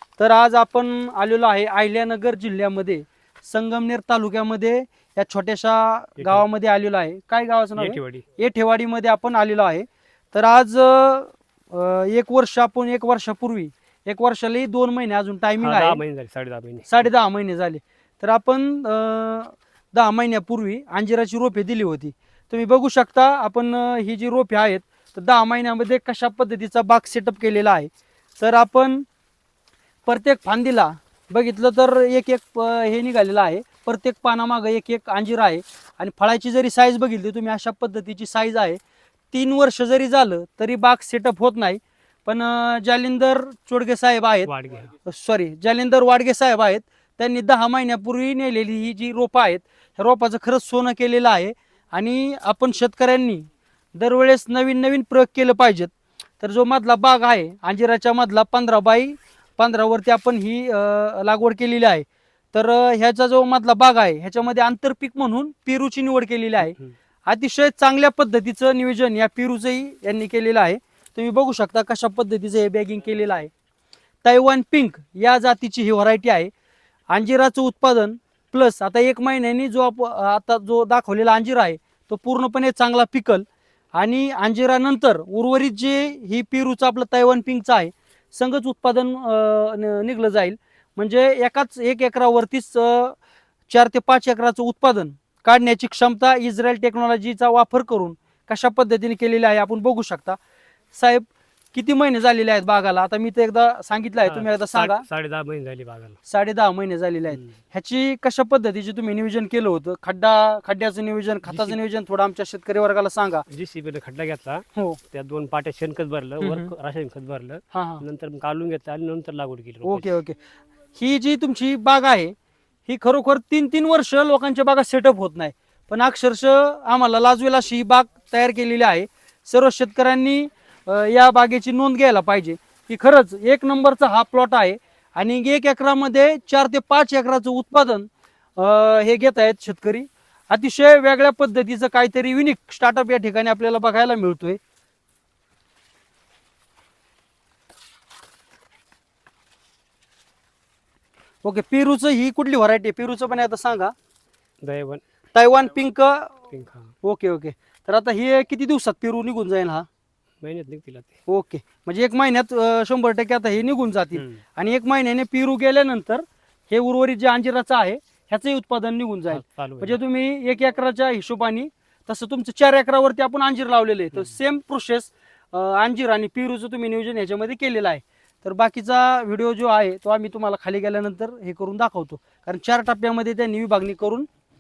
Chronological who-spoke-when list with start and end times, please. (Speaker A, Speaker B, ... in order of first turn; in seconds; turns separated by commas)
Speaker A: 0.2-16.0, Speaker B: 6.2-6.5, Speaker B: 7.8-8.2, Speaker B: 15.6-17.1, Speaker A: 16.9-29.1, Speaker A: 30.1-38.8, Speaker A: 39.3-44.5, Speaker B: 44.5-44.9, Speaker A: 45.0-66.8, Speaker A: 67.3-73.5, Speaker A: 74.2-76.5, Speaker A: 77.1-93.2, Speaker A: 93.7-100.4, Speaker A: 100.9-105.1, Speaker B: 104.2-106.2, Speaker A: 106.2-113.5, Speaker B: 111.5-111.8, Speaker B: 113.5-120.1, Speaker A: 116.4-116.7, Speaker A: 117.7-118.0, Speaker A: 119.8-120.4, Speaker A: 121.0-122.3, Speaker A: 122.9-144.6, Speaker A: 151.4-153.9, Speaker B: 154.6-155.0, Speaker A: 155.3-156.4, Speaker B: 156.5-156.9, Speaker A: 157.0-159.9, Speaker B: 160.4-161.2, Speaker A: 161.3-184.3, Speaker B: 164.2-164.4, Speaker B: 169.3-170.0